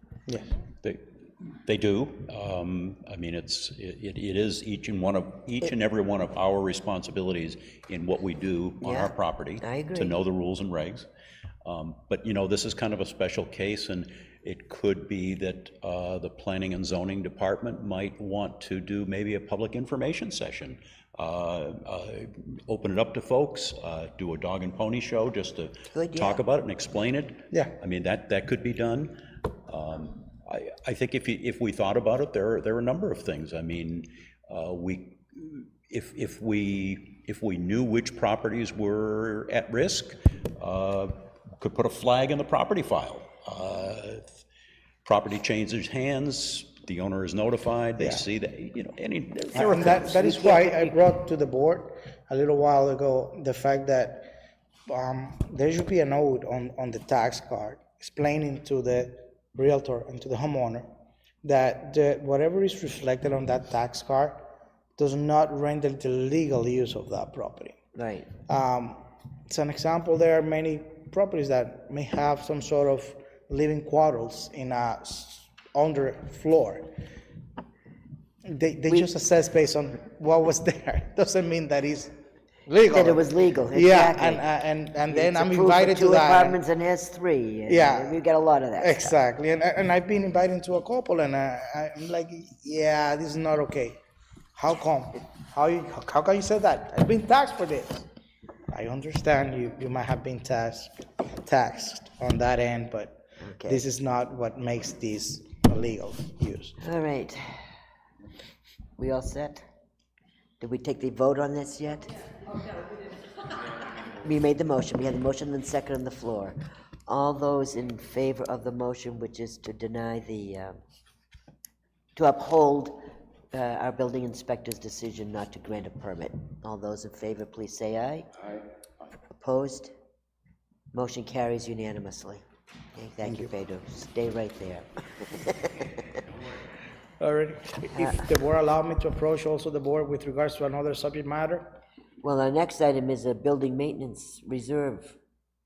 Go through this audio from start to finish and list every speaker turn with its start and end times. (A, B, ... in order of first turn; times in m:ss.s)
0:00.8-0:11.1 A
0:08.8-0:10.2 B
0:11.6-0:29.1 A
0:25.9-0:26.4 B
0:29.7-0:44.3 A
0:45.0-0:50.9 A
0:48.0-0:48.2 C
0:49.5-0:54.3 C
0:54.9-1:00.9 C
1:01.4-1:04.4 C
1:05.0-1:07.8 C
1:07.9-1:08.3 B
1:08.5-1:16.9 C
1:18.4-1:22.1 C
1:22.7-1:26.6 C
1:22.9-1:24.4 B
1:25.1-1:29.2 B
1:27.7-1:28.2 C
1:28.8-1:34.0 C
1:34.6-1:38.1 C
1:38.7-1:46.8 C
1:43.4-1:43.8 B
1:46.8-1:47.7 B
1:49.0-1:49.6 B
1:50.6-1:52.3 B
1:54.0-1:56.6 B
1:57.1-2:00.8 B
2:02.2-2:03.0 B
2:03.5-2:08.3 B
2:09.3-2:09.9 B
2:10.9-2:12.4 B
2:12.9-2:16.1 B
2:17.2-2:21.6 C
2:17.9-2:18.2 B
2:22.2-2:25.2 B